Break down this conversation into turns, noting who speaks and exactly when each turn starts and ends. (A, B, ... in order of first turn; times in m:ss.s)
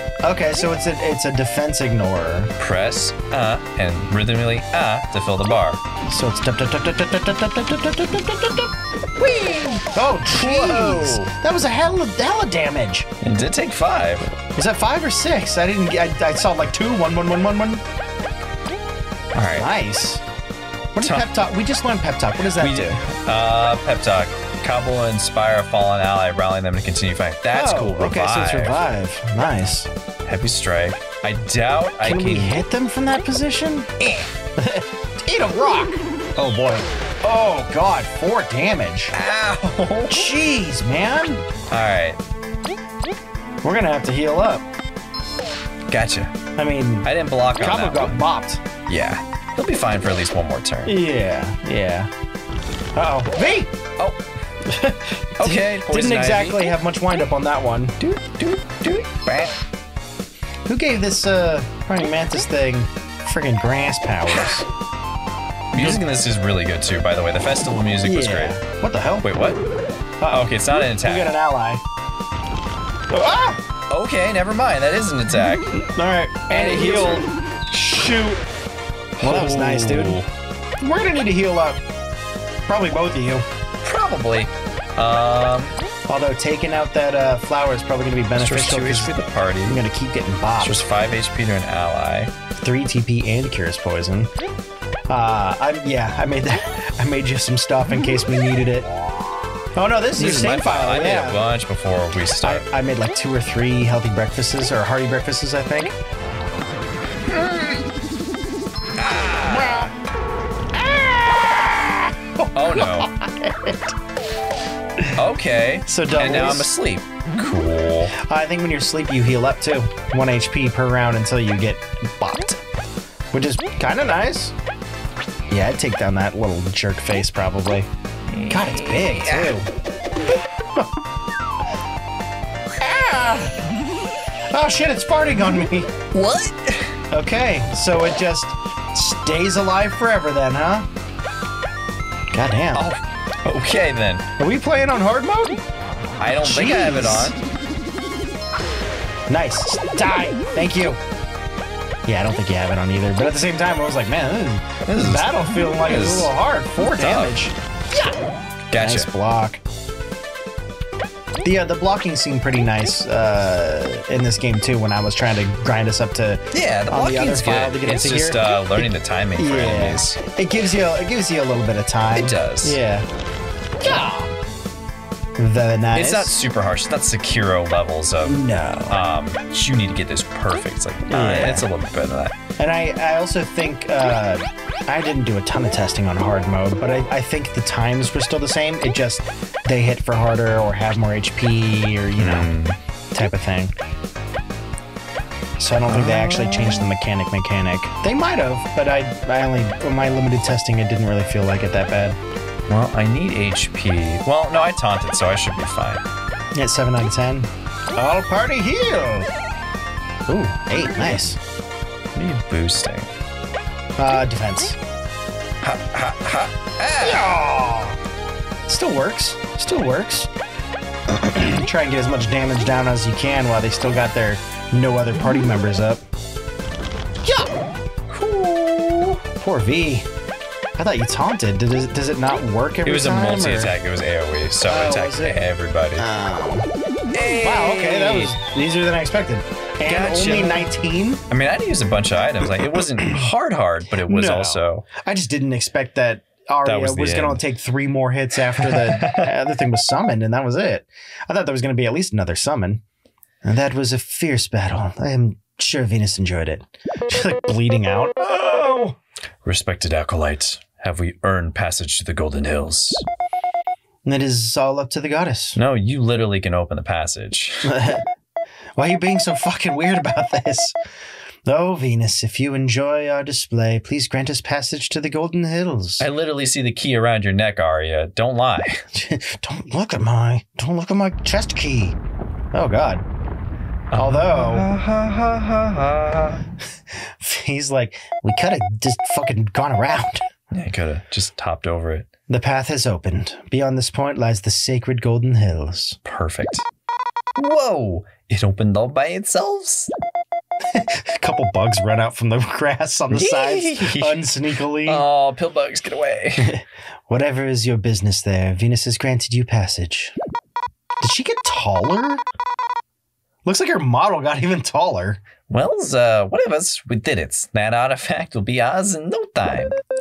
0:00.2-0:02.5 A
0:02.6-0:05.8 B
0:06.1-0:08.7 A
0:09.2-0:11.3 B
0:09.9-0:13.1 A
0:13.2-0:14.3 B
0:14.4-0:17.8 A
0:19.4-0:19.7 B
0:19.5-0:20.2 A
0:21.0-0:23.0 A
0:22.6-0:28.8 B
0:27.5-0:29.9 A
0:30.3-0:32.6 B
0:32.0-0:33.9 A
0:34.0-0:34.3 B
0:34.6-0:39.2 A
0:39.1-0:40.3 B
0:40.1-0:41.4 A
0:41.7-0:42.2 B
0:43.6-0:44.6 A
0:45.9-0:46.4 B
0:46.6-0:48.6 A
0:47.0-0:48.2 B
0:48.9-0:51.0 B
0:50.8-0:52.1 A
0:53.0-0:53.7 A
0:54.6-0:58.0 A
0:55.4-0:56.7 B
0:58.0-0:59.6 B
1:00.7-1:04.7 A
1:04.3-1:04.6 B
1:05.7-1:08.6 B
1:05.8-1:06.0 A
1:08.0-1:09.3 A
1:09.2-1:09.6 B
1:10.2-1:11.8 A
1:10.3-1:11.3 B
1:13.1-1:13.6 A
1:13.9-1:15.7 B
1:15.8-1:18.4 A
1:16.5-1:17.3 B
1:19.2-1:20.3 B
1:19.2-1:20.2 A
1:20.8-1:21.8 A
1:22.7-1:23.4 A
1:23.8-1:25.8 B
1:26.1-1:30.8 A
1:28.4-1:29.8 B
1:30.6-1:32.3 B
1:32.6-1:34.3 A
1:35.1-1:38.9 A
1:39.8-1:41.4 A
1:40.2-1:42.7 B
1:42.4-1:45.9 A
1:47.3-1:47.8 B
1:49.0-1:49.9 B
1:49.4-1:49.9 A
1:50.7-1:53.9 A
1:52.5-1:53.1 B
1:55.2-1:58.2 B
1:55.9-1:56.7 A
1:58.1-2:02.6 A
2:03.3-2:04.6 A
2:05.5-2:07.9 A
2:08.3-2:09.6 B
2:08.5-2:09.7 A
2:12.8-2:13.6 A
2:14.5-2:16.0 A
2:16.1-2:17.0 B
2:17.1-2:20.9 A
2:22.3-2:22.9 A
2:22.8-2:24.3 B
2:24.4-2:25.6 A
2:26.2-2:27.4 B
2:26.4-2:27.4 A
2:29.3-2:31.0 A
2:32.1-2:38.2 A
2:34.8-2:37.5 B
2:38.7-2:39.1 B
2:38.8-2:39.6 A
2:41.4-2:53.1 A
2:46.5-2:50.2 B
2:52.2-2:52.8 B
2:53.8-2:54.3 A
2:55.4-2:56.4 A
2:56.0-3:02.4 B
2:58.2-2:59.0 A
3:01.1-3:01.7 A
3:02.6-3:12.5 A
3:12.2-3:12.8 B
3:13.1-3:13.7 A
3:15.6-3:22.2 A
3:15.9-3:16.9 B
3:22.7-3:26.0 B
3:26.6-3:29.3 A
3:30.3-3:31.4 A
3:32.2-3:33.1 B
3:34.0-3:34.8 A
3:35.6-3:37.3 B
3:36.9-3:38.0 A
3:38.7-3:40.3 A
3:41.1-3:46.0 A
3:47.2-3:47.5 A
3:48.1-3:49.2 B
3:49.4-3:50.1 A
3:50.8-3:53.8 A
3:52.8-3:56.1 B
3:54.6-3:55.4 A
3:56.0-3:56.7 A
3:57.1-3:58.3 B
3:57.4-4:01.2 A
3:59.8-4:00.7 B
4:01.3-4:04.9 B
4:02.6-4:03.3 A
4:04.0-4:12.8 A
4:06.6-4:07.4 B
4:08.6-4:09.3 B
4:13.4-4:19.0 A
4:19.4-4:23.0 B
4:24.0-4:25.6 A
4:25.6-4:27.7 B
4:27.6-4:28.0 A
4:28.8-4:30.7 A
4:31.5-4:36.1 A
4:36.0-4:38.8 B
4:38.9-4:42.0 A
4:42.5-4:43.0 A
4:43.9-4:46.4 B
4:44.0-4:44.7 A
4:47.2-4:50.2 A
4:50.5-4:52.1 B
4:52.3-4:56.0 A
4:56.1-4:56.6 B
4:57.4-4:59.9 B
5:00.7-5:05.0 A
5:03.1-5:04.3 B
5:04.9-5:06.5 B
5:06.4-5:10.2 A
5:11.0-5:12.2 A
5:13.4-5:15.2 A
5:15.5-5:19.8 B